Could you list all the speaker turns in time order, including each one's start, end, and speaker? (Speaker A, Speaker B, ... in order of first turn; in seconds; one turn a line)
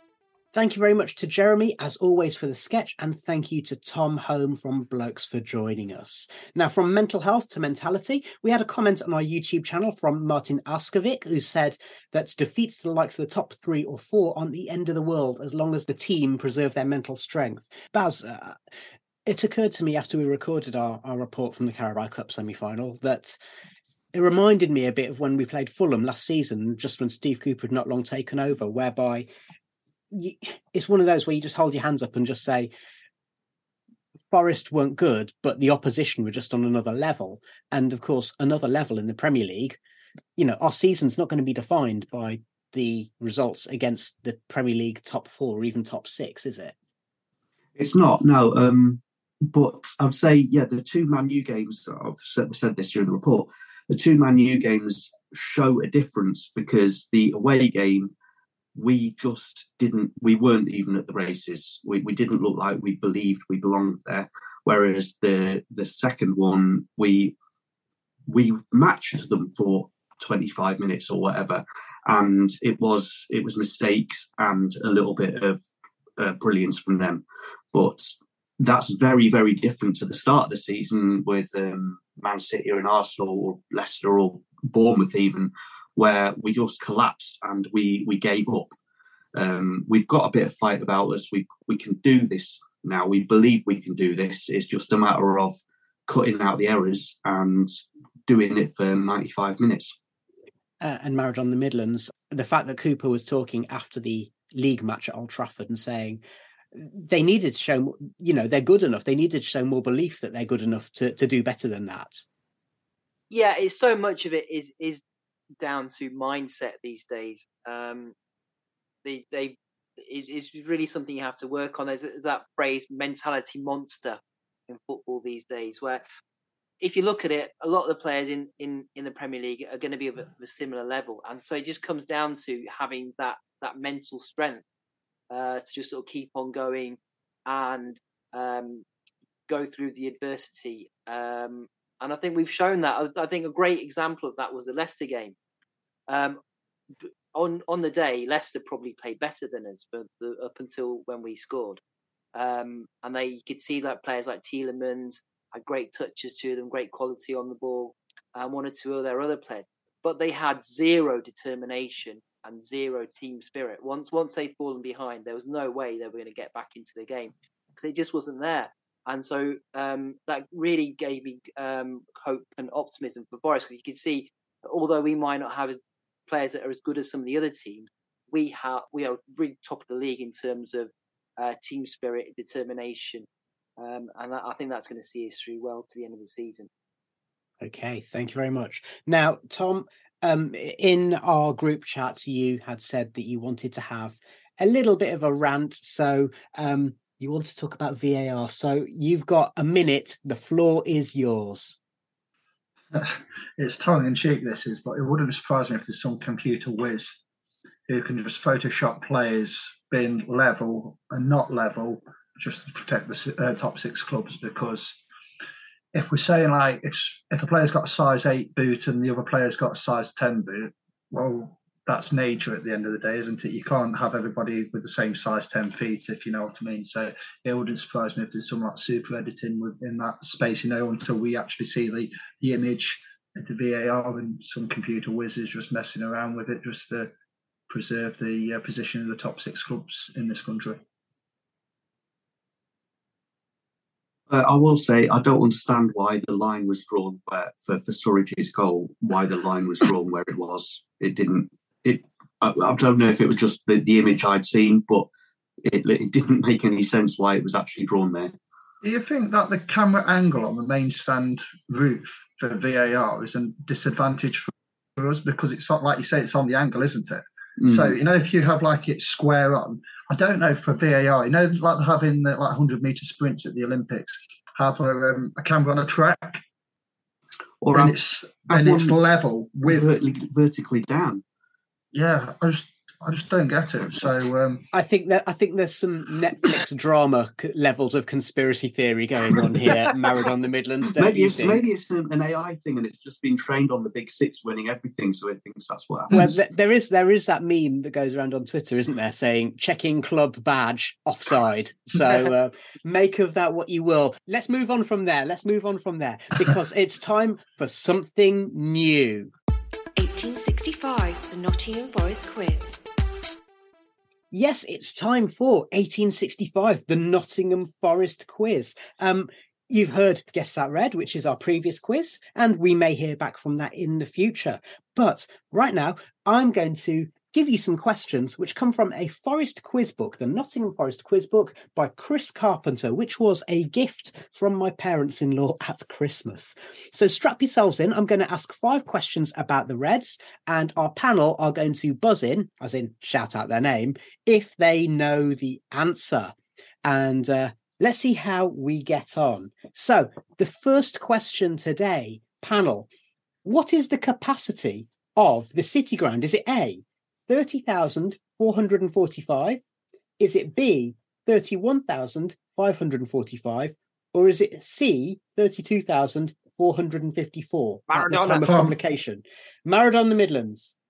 Speaker A: 0.5-18.6
Speaker A: 19.2-23.4
Speaker A: 24.1-29.3
Speaker A: 30.1-32.7
Speaker A: 34.3-39.8
Speaker A: 40.4-46.7
Speaker B: 47.8-58.1
Speaker B: 58.7-67.3
Speaker B: 68.3-75.6
Speaker B: 76.2-88.7
Speaker B: 89.3-99.9
Speaker A: 100.8-106.2
Speaker A: 106.7-112.2
Speaker C: 113.3-115.0
Speaker C: 115.6-118.1
Speaker C: 119.0-126.0
Speaker C: 126.8-134.6
Speaker C: 135.3-138.8
Speaker C: 139.5-145.3
Speaker C: 146.1-146.4
Speaker C: 147.0-151.8
Speaker C: 152.3-183.2
Speaker C: 183.8-186.7
Speaker A: 187.6-201.8
Speaker D: 202.9-207.2
Speaker D: 207.9-215.0
Speaker D: 215.9-237.1
Speaker D: 237.7-240.8
Speaker B: 244.3-255.1
Speaker B: 255.7-258.3
Speaker D: 258.8-276.4
Speaker B: 267.6-268.0
Speaker B: 277.6-279.0
Speaker D: 277.7-279.9
Speaker B: 279.6-281.2
Speaker D: 281.9-284.7
Speaker A: 284.7-291.6
Speaker B: 290.9-296.3
Speaker A: 296.1-309.3
Speaker E: 310.0-312.8
Speaker A: 314.3-352.9
Speaker A: 353.4-359.6
Speaker A: 360.2-370.7
Speaker C: 367.9-368.4
Speaker D: 368.4-368.7